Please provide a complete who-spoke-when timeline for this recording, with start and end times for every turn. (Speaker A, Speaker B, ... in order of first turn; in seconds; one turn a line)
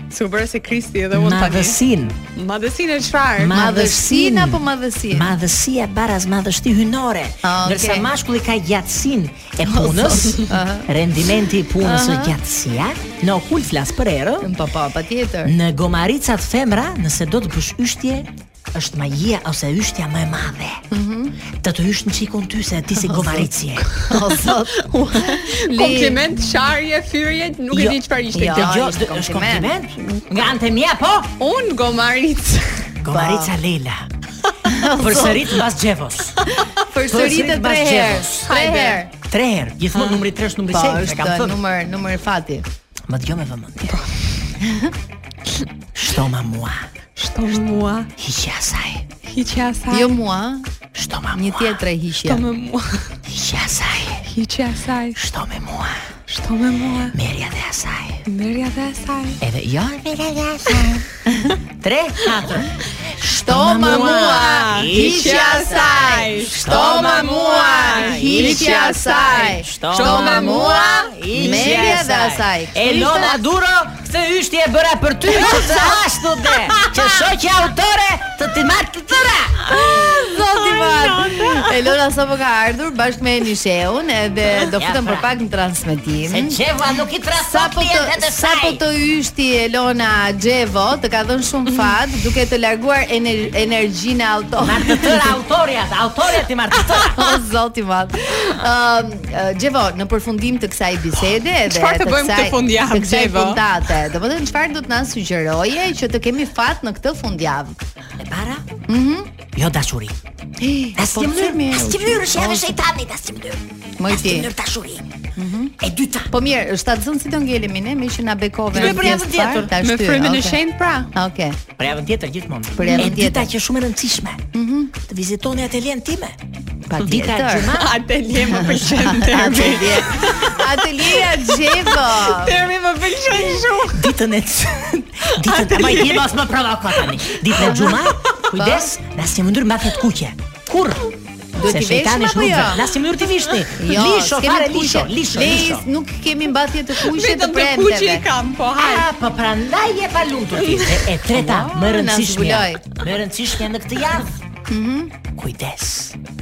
Speaker A: 0.1-1.8
Speaker B: 1.1-2.1
Speaker A: 2.3-3.7
Speaker B: 3.4-14.5
Speaker C: 3.5-5.3
Speaker C: 7.4-8.1
Speaker C: 9.6-10.9
Speaker C: 11.8-12.3
Speaker C: 14.4-15.5
Speaker B: 15.4-20.8
Speaker C: 20.9-21.4
Speaker B: 21.5-23.9
Speaker C: 22.9-26.2
Speaker A: 24.8-28.8
Speaker B: 27.7-31.3
Speaker C: 28.3-29.7
Speaker A: 31.4-32.9
Speaker B: 33.0-34.0
Speaker C: 33.1-33.5
Speaker C: 34.7-35.6
Speaker B: 35.0-36.4
Speaker C: 36.9-39.1
Speaker B: 37.1-38.5
Speaker A: 38.5-39.0
Speaker B: 39.2-41.6
Speaker C: 40.7-42.6
Speaker B: 43.1-44.0
Speaker A: 43.8-44.1
Speaker C: 44.6-44.9
Speaker B: 45.9-46.9
Speaker A: 47.2-48.1
Speaker B: 48.2-49.0
Speaker A: 49.2-50.1
Speaker C: 49.9-50.7
Speaker B: 50.9-51.8
Speaker C: 51.3-52.5
Speaker A: 52.2-53.1
Speaker B: 53.2-54.2
Speaker A: 54.2-55.2
Speaker B: 55.1-56.0
Speaker A: 56.3-57.1
Speaker B: 57.1-58.2
Speaker A: 58.2-59.4
Speaker B: 59.4-61.0
Speaker B: 61.8-65.7
Speaker C: 63.2-73.4
Speaker A: 63.9-70.8
Speaker B: 66.5-68.9
Speaker B: 69.4-81.9
Speaker C: 75.3-76.0
Speaker C: 76.6-76.9
Speaker C: 79.7-86.6
Speaker B: 84.5-85.3
Speaker B: 86.2-88.8
Speaker C: 87.3-95.2
Speaker B: 94.6-97.4
Speaker C: 97.0-107.8
Speaker A: 101.7-103.6
Speaker B: 108.2-108.7
Speaker C: 108.9-109.3
Speaker B: 109.5-110.2
Speaker C: 110.6-112.7
Speaker B: 110.9-115.0
Speaker C: 114.0-114.5
Speaker C: 115.4-115.7
Speaker B: 115.8-116.3
Speaker C: 116.3-120.6
Speaker B: 118.7-119.7
Speaker A: 118.7-121.1
Speaker C: 121.1-121.6
Speaker B: 121.8-124.4
Speaker C: 122.8-123.5
Speaker A: 122.8-123.1
Speaker C: 124.5-124.9
Speaker B: 125.0-126.3
Speaker C: 126.9-127.7
Speaker B: 127.0-127.9
Speaker A: 127.7-134.1
Speaker C: 128.5-132.6
Speaker B: 133.9-141.1
Speaker A: 135.2-137.5
Speaker C: 137.5-138.9
Speaker C: 141.5-142.9
Speaker B: 141.6-145.8
Speaker C: 143.8-148.2
Speaker A: 147.0-149.1
Speaker B: 148.8-154.3
Speaker A: 150.6-151.1
Speaker C: 151.3-153.0
Speaker C: 154.7-155.2
Speaker B: 155.3-156.2